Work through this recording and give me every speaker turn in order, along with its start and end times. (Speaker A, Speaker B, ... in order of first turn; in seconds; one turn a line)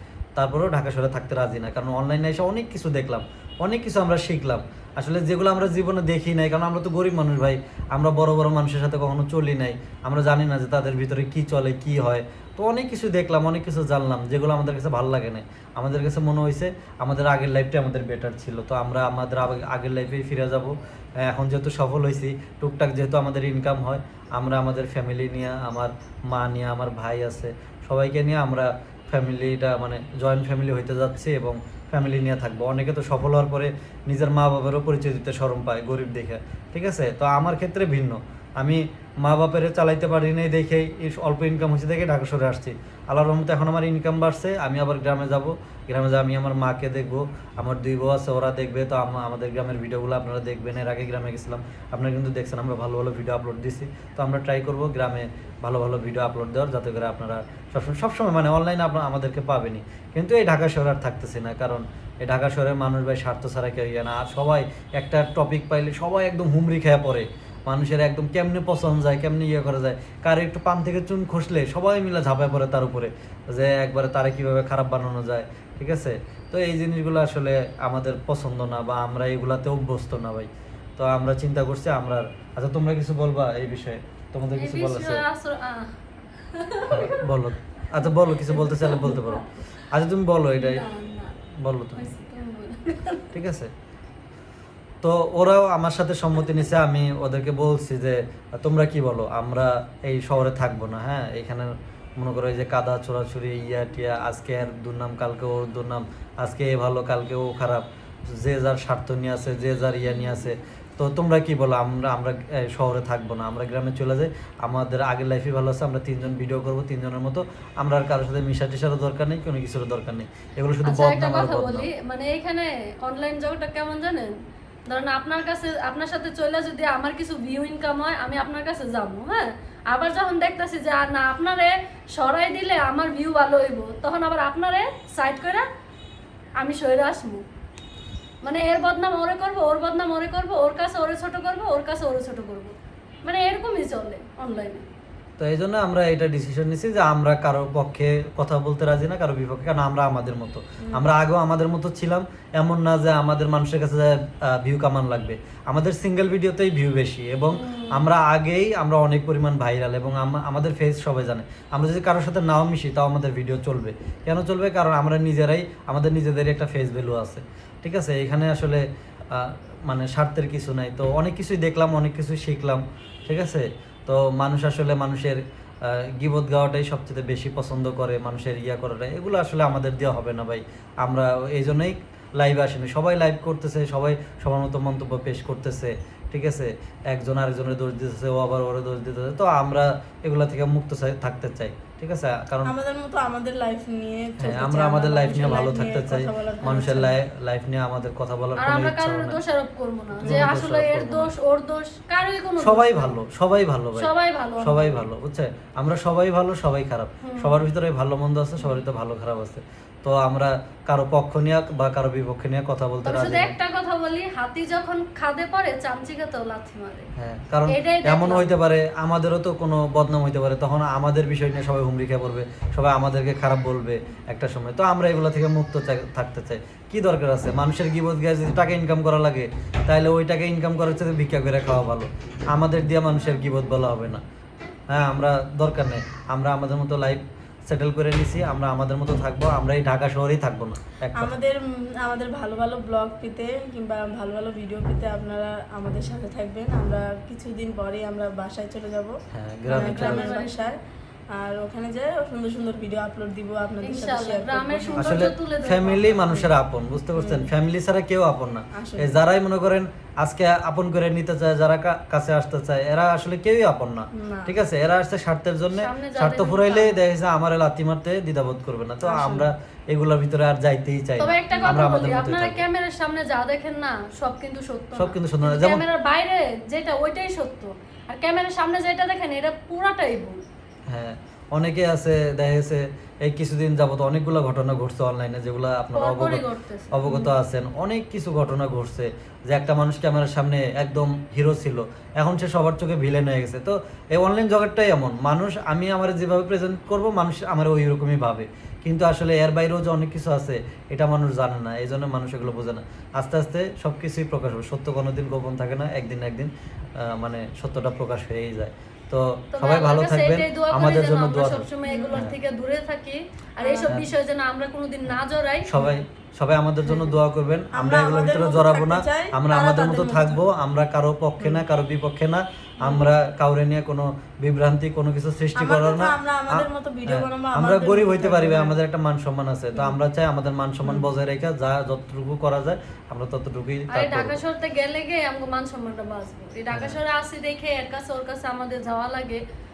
Speaker A: 0.3-85.2
Speaker B: 84.5-87.3
Speaker A: 86.9-90.8
Speaker B: 88.3-89.3
Speaker C: 90.9-91.2
Speaker A: 91.6-92.1
Speaker B: 92.1-93.2
Speaker A: 93.3-93.7
Speaker A: 95.0-121.9
Speaker B: 120.8-124.3
Speaker B: 124.9-135.7
Speaker B: 136.6-137.4
Speaker B: 138.4-144.9
Speaker A: 145.4-192.7
Speaker C: 192.7-197.1
Speaker A: 194.4-199.4
Speaker B: 198.6-203.1
Speaker A: 200.2-201.3
Speaker A: 202.6-213.6
Speaker B: 203.9-205.0
Speaker B: 207.2-207.6
Speaker B: 213.0-217.1
Speaker A: 217.2-234.2
Speaker B: 217.7-218.5
Speaker A: 234.9-241.3
Speaker C: 241.1-249.1
Speaker A: 249.3-250.3
Speaker C: 249.7-250.8
Speaker B: 249.7-250.6
Speaker C: 251.3-255.3
Speaker B: 253.8-256.5
Speaker A: 255.0-272.6
Speaker C: 257.1-257.5
Speaker C: 258.7-259.2
Speaker C: 264.1-264.5
Speaker B: 265.7-267.0
Speaker C: 269.0-269.5
Speaker B: 271.2-280.4
Speaker C: 271.5-271.8
Speaker A: 274.9-275.8
Speaker A: 280.9-312.3
Speaker B: 285.9-287.1
Speaker C: 287.1-287.3
Speaker B: 309.5-315.7
Speaker C: 311.9-312.2
Speaker C: 313.6-313.9
Speaker A: 315.7-334.4
Speaker C: 315.7-316.0
Speaker C: 316.9-317.1
Speaker C: 317.7-320.5
Speaker C: 325.5-328.8
Speaker B: 333.9-339.4
Speaker A: 336.7-337.0